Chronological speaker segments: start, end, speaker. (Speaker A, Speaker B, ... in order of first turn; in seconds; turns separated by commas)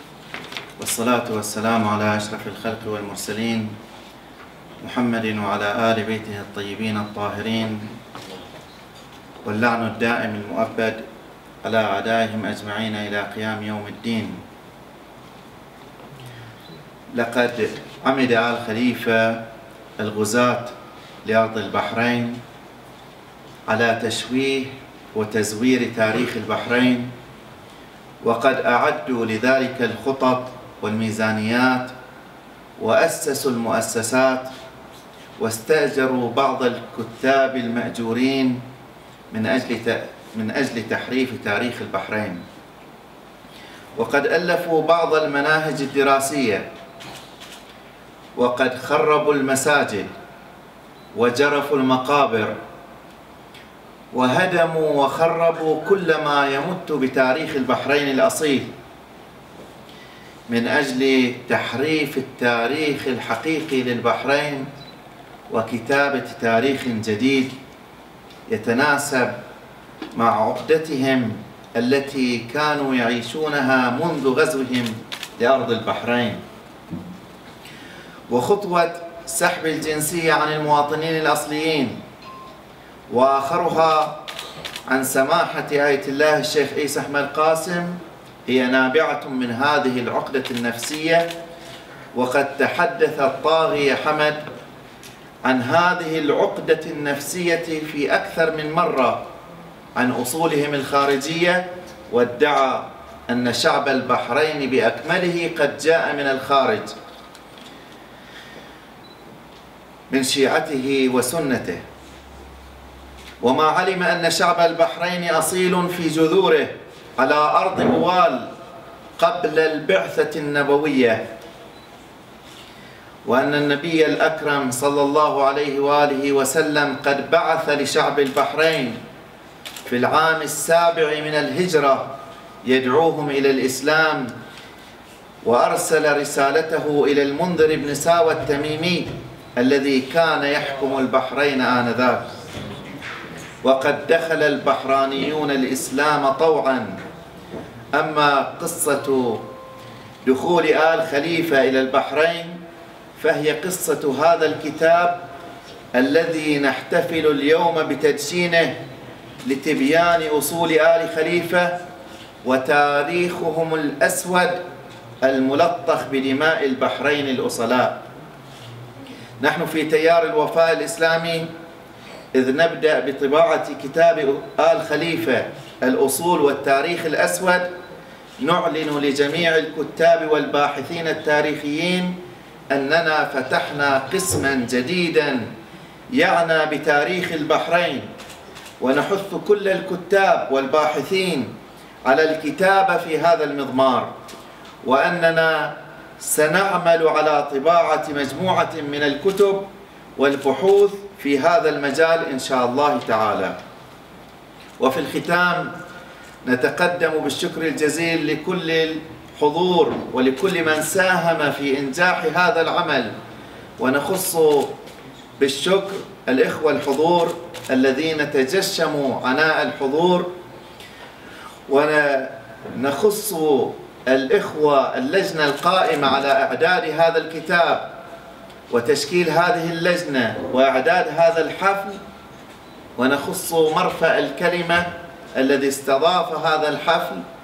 Speaker A: 0.8-3.7, Speaker A: 4.8-7.9, Speaker A: 9.4-11.0, Speaker A: 11.6-14.4, Speaker A: 17.1-19.4, Speaker A: 20.0-20.7, Speaker A: 21.2-22.4, Speaker A: 23.7-27.1, Speaker A: 28.2-31.9, Speaker A: 32.8-34.5, Speaker A: 35.4-38.6, Speaker A: 39.3-42.4, Speaker A: 44.0-46.6, Speaker A: 48.3-50.1, Speaker A: 51.1-52.5, Speaker A: 54.1-58.7, Speaker A: 60.5-64.7, Speaker A: 65.5-67.5, Speaker A: 68.5-69.3, Speaker A: 70.1-76.4, Speaker A: 78.3-82.0, Speaker A: 83.1-84.2, Speaker A: 84.9-91.3, Speaker A: 92.1-94.4, Speaker A: 95.4-99.2, Speaker A: 99.9-106.9, Speaker A: 110.1-111.8, Speaker A: 113.4-118.5, Speaker A: 119.2-121.2, Speaker A: 123.2-129.0, Speaker A: 129.8-134.3, Speaker A: 135.4-142.3, Speaker A: 143.6-147.0, Speaker A: 147.9-149.4, Speaker A: 150.2-152.6, Speaker A: 153.2-155.2, Speaker A: 155.9-158.8, Speaker A: 159.4-161.8, Speaker A: 162.4-164.6, Speaker A: 165.2-168.0, Speaker A: 169.4-171.5, Speaker A: 172.3-177.7, Speaker A: 178.4-182.2, Speaker A: 182.7-185.5, Speaker A: 186.1-188.1, Speaker A: 188.8-191.5, Speaker A: 192.0-194.1, Speaker A: 194.8-203.6, Speaker A: 204.8-205.7, Speaker A: 206.4-213.1, Speaker A: 213.8-214.7, Speaker A: 215.4-220.3, Speaker A: 221.7-227.9, Speaker A: 228.7-232.0, Speaker A: 232.9-237.2